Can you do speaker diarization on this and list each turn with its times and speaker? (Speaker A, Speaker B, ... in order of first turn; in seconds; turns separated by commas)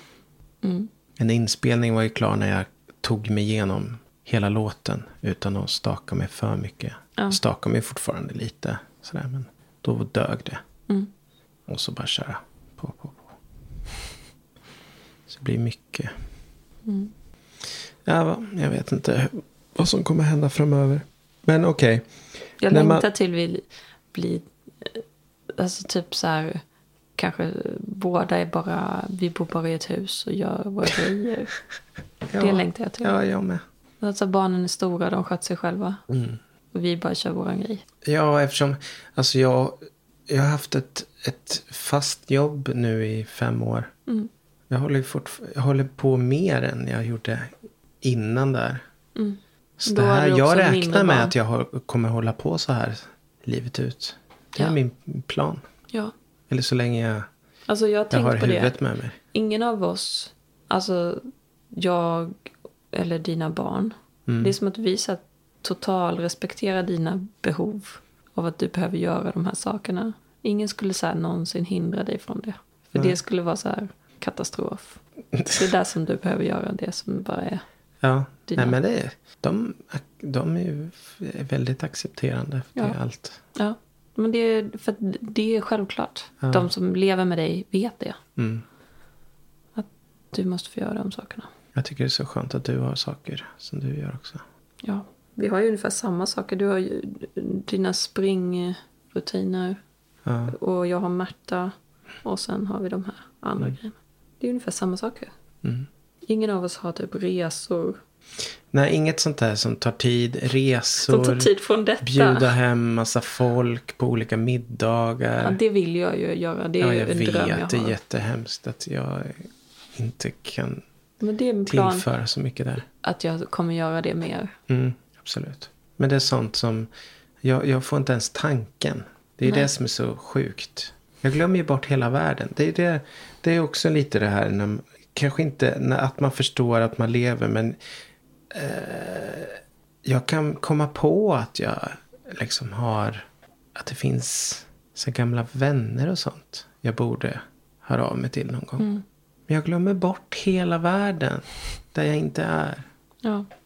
Speaker A: 0.6-0.9, Speaker B: 1.2-10.6, Speaker B: 11.7-13.4, Speaker B: 15.3-16.1, Speaker A: 16.8-17.1, Speaker B: 18.0-22.1, Speaker A: 22.6-25.0, Speaker B: 22.7-23.1, Speaker A: 25.6-26.6, Speaker A: 27.1-31.6, Speaker B: 32.3-33.6, Speaker A: 32.4-33.2, Speaker A: 34.0-36.0, Speaker B: 36.1-36.4, Speaker A: 36.7-37.8, Speaker B: 38.0-43.9, Speaker B: 44.7-48.8, Speaker A: 49.1-51.3, Speaker B: 49.8-55.6, Speaker B: 56.5-57.3, Speaker A: 57.7-58.8, Speaker B: 58.1-59.2, Speaker A: 59.3-75.0, Speaker B: 64.3-64.5, Speaker A: 75.5-77.6, Speaker B: 78.0-83.4, Speaker A: 78.5-78.8, Speaker A: 83.5-88.2, Speaker B: 86.4-86.7, Speaker B: 88.4-88.6, Speaker A: 89.8-91.5, Speaker B: 91.7-94.4, Speaker A: 94.8-99.8, Speaker B: 100.2-100.5, Speaker A: 100.5-105.3, Speaker B: 105.6-105.9, Speaker A: 106.3-108.0, Speaker B: 108.7-115.6, Speaker A: 111.0-112.5, Speaker A: 115.4-118.0, Speaker B: 116.8-120.8, Speaker A: 121.2-122.1, Speaker B: 121.7-122.8, Speaker A: 123.0-124.5, Speaker B: 124.7-126.9, Speaker B: 127.4-137.8, Speaker B: 138.5-148.9, Speaker A: 148.8-149.0, Speaker B: 149.5-152.9